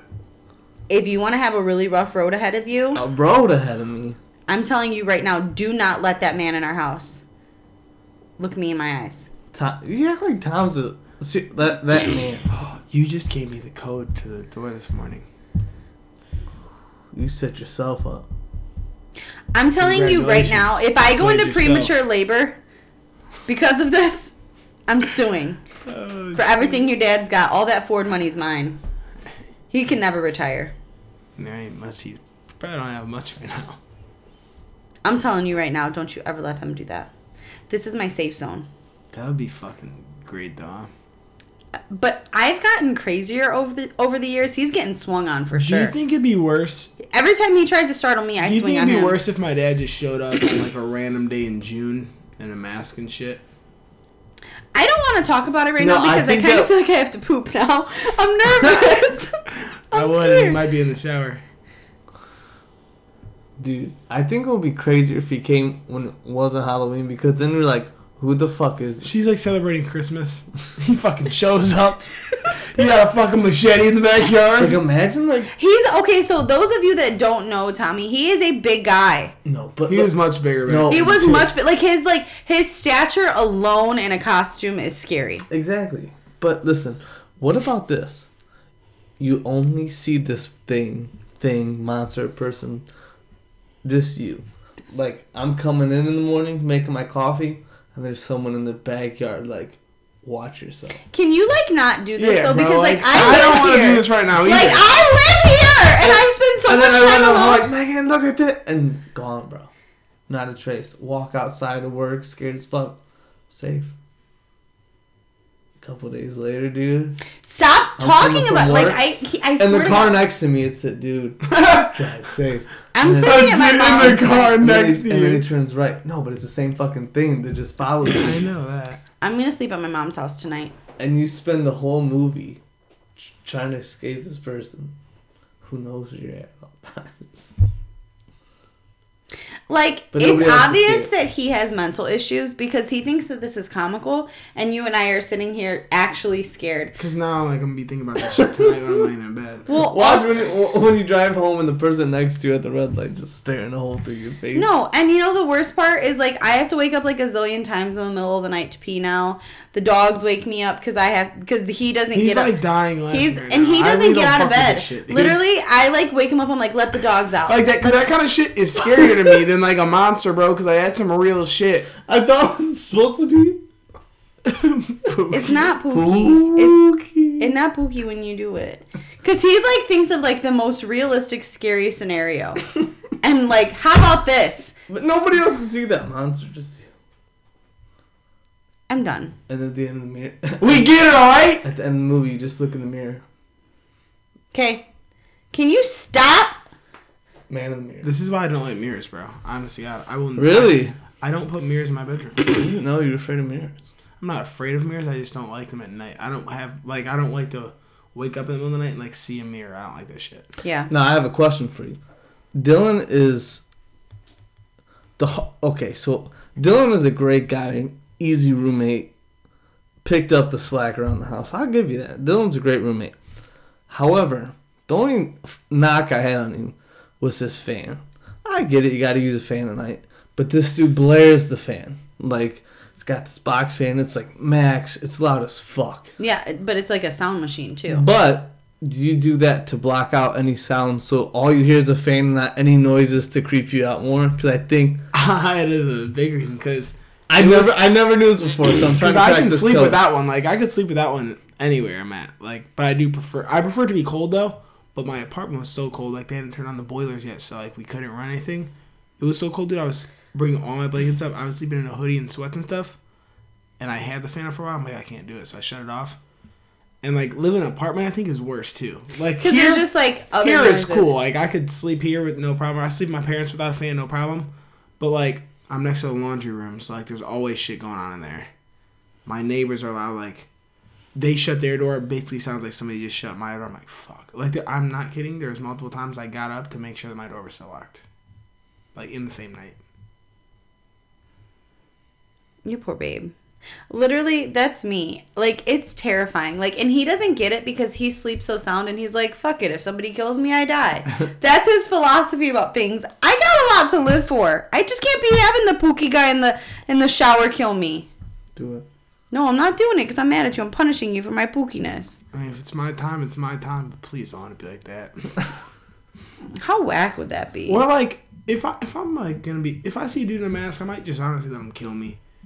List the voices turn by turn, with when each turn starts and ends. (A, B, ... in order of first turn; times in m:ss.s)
0:00.9-0:03.0 A
0:02.9-0:04.2 B
0:04.5-0:07.2 A
0:08.4-0:09.3 A
0:09.5-0:12.5 B
0:12.8-0:15.2 C
0:17.1-0:18.3 B
0:19.5-0:22.6 A
0:19.8-0:21.9 C
0:23.5-0:25.6 A
0:25.8-0:26.9 C
0:26.3-0:28.8 A
0:29.7-0:30.7 A
0:31.4-0:33.8 C
0:35.0-0:37.1 A
0:37.7-0:38.7 A
0:39.1-0:40.9 C
0:41.9-0:45.9 A
0:45.5-0:46.9 C
0:47.0-0:49.2 A
0:48.4-0:53.4 C
0:54.7-1:00.6 A
0:55.8-0:56.7 B
0:59.9-1:01.4 C
1:03.6-1:09.1 B
1:09.0-1:14.8 C
1:14.6-1:15.5 B
1:15.5-1:19.3 A
1:19.4-1:20.1 B
1:19.9-1:21.3 C
1:20.6-1:21.5 B
1:20.9-1:25.4 A
1:25.5-1:28.3 B
1:29.2-1:32.8 B
1:33.8-1:41.0 B
1:41.1-1:47.7 A
1:42.2-1:44.9 C
1:43.1-1:43.5 B
1:46.6-1:49.7 B
1:50.3-1:53.0 B
1:53.5-1:53.9 B
1:55.8-1:57.2 B
1:57.4-2:00.2 A
1:58.0-1:59.0 B
1:59.6-2:08.4 B
2:01.5-2:02.0 C
2:02.9-2:04.6 A
2:03.2-2:05.4 C
2:08.1-2:09.0 C
2:09.2-2:10.7 A
2:11.0-2:12.6 B
2:13.2-2:14.9 B
2:15.6-2:17.5 B
2:19.7-2:27.0 A
2:20.1-2:21.1 B
2:27.0-2:29.7 C
2:29.7-2:30.4 A
2:29.8-2:34.7 B
2:34.5-2:42.5 A
2:42.1-2:45.4 C
2:43.1-2:48.0 A
2:47.5-2:51.9 C
2:52.0-2:53.6 B
2:54.4-2:55.7 C
2:55.3-2:56.8 A
2:55.9-2:57.5 B
2:57.4-3:02.6 A
3:03.2-3:05.3 A
3:04.9-3:06.9 B
3:08.9-3:09.3 A
3:09.5-3:10.9 B
3:10.6-3:11.6 C
3:11.6-3:13.2 B
3:14.5-3:14.8 A
3:15.5-3:16.6 A
3:17.5-3:18.1 B
3:18.0-3:22.5 C
3:20.4-3:20.9 B
3:22.4-3:23.8 B
3:24.2-3:30.5 C
3:30.6-3:30.9 A
3:30.9-3:32.0 B
3:32.5-3:33.6 B
3:35.2-3:39.1 B
3:40.0-3:43.2 B
3:43.9-3:56.1 B
3:56.2-3:58.0 A
3:57.9-4:05.0 B
4:05.1-4:07.8 C
4:07.3-4:10.0 B
4:09.0-4:23.0 C
4:23.8-4:26.2 C
4:27.0-4:34.5 C
4:29.4-4:31.1 A
4:35.0-4:38.5 C
4:39.2-4:40.5 C
4:41.1-4:48.0 C
4:48.9-4:49.8 C
4:52.6-4:53.3 A
4:53.9-5:08.1 A
5:08.6-5:08.8 B
5:09.3-5:12.2 A
5:12.3-5:15.3 C
5:16.5-5:17.8 A
5:17.7-5:22.2 C